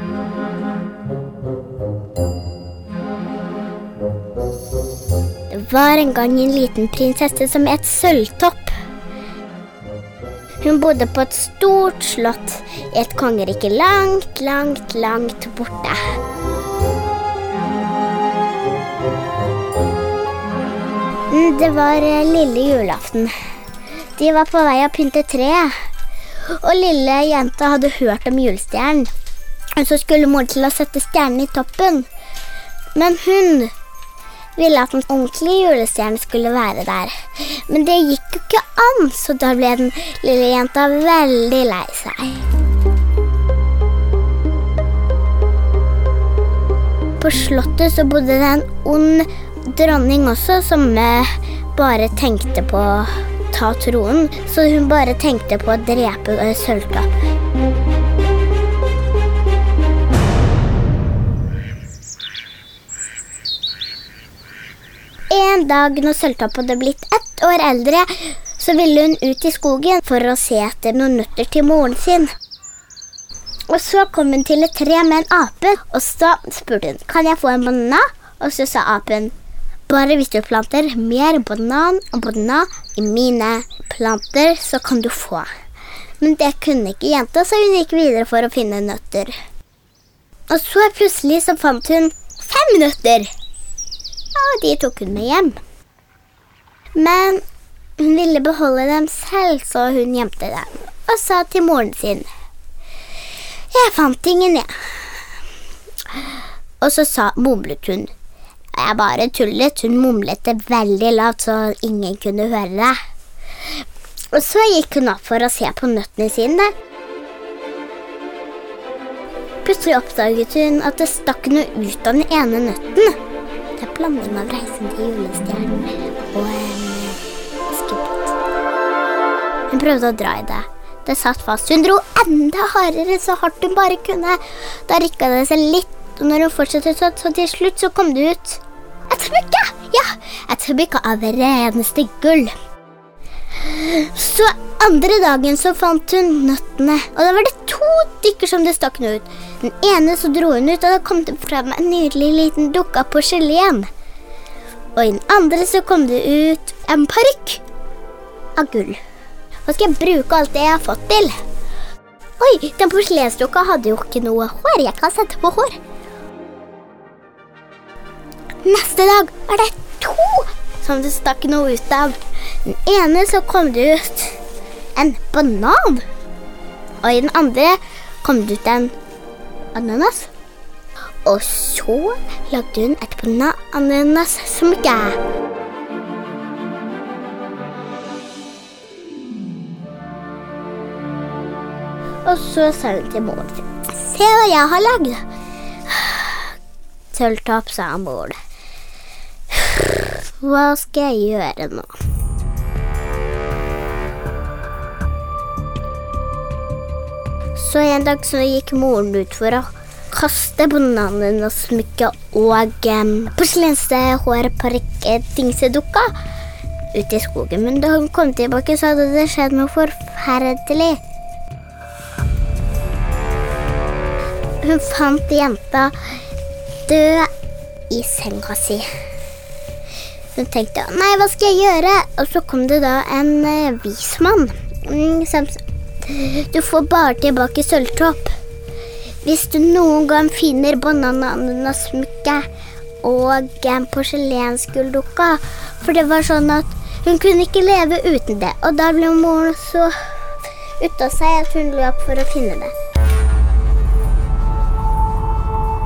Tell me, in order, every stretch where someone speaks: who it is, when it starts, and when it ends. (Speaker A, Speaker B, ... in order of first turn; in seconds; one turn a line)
Speaker A: 5.5-8.7
Speaker A: 10.6-16.2
Speaker A: 21.3-23.3
Speaker A: 24.2-25.8
Speaker A: 26.4-29.1
Speaker A: 29.8-32.1
Speaker A: 32.9-33.7
Speaker A: 34.6-42.5
Speaker A: 47.2-57.1
Speaker A: 65.3-72.3
Speaker A: 73.7-79.3
Speaker A: 79.9-85.5
Speaker A: 86.2-89.4
Speaker A: 90.5-93.3
Speaker A: 94.3-95.6
Speaker A: 96.9-97.4
Speaker A: 98.0-102.3
Speaker A: 103.7-104.7
Speaker A: 106.8-108.1
Speaker A: 108.7-113.0
Speaker A: 114.3-116.7
Speaker A: 119.6-123.2
Speaker A: 123.8-128.3
Speaker A: 129.7-142.5
Speaker A: 143.6-153.9
Speaker A: 154.9-157.6
Speaker A: 158.6-159.0
Speaker A: 159.7-161.4
Speaker A: 162.4-165.8
Speaker A: 168.6-174.4
Speaker A: 174.9-176.0
Speaker A: 177.0-178.9
Speaker A: 179.7-180.3
Speaker A: 181.2-185.2
Speaker A: 192.2-195.2
Speaker A: 195.8-196.5
Speaker A: 197.1-198.3
Speaker A: 199.5-201.9
Speaker A: 207.5-216.1
Speaker A: 216.9-221.0
Speaker A: 224.6-226.1
Speaker A: 226.8-227.3
Speaker A: 227.9-228.9
Speaker A: 230.3-238.3
Speaker A: 239.2-242.5
Speaker A: 243.0-249.9
Speaker A: 250.8-252.7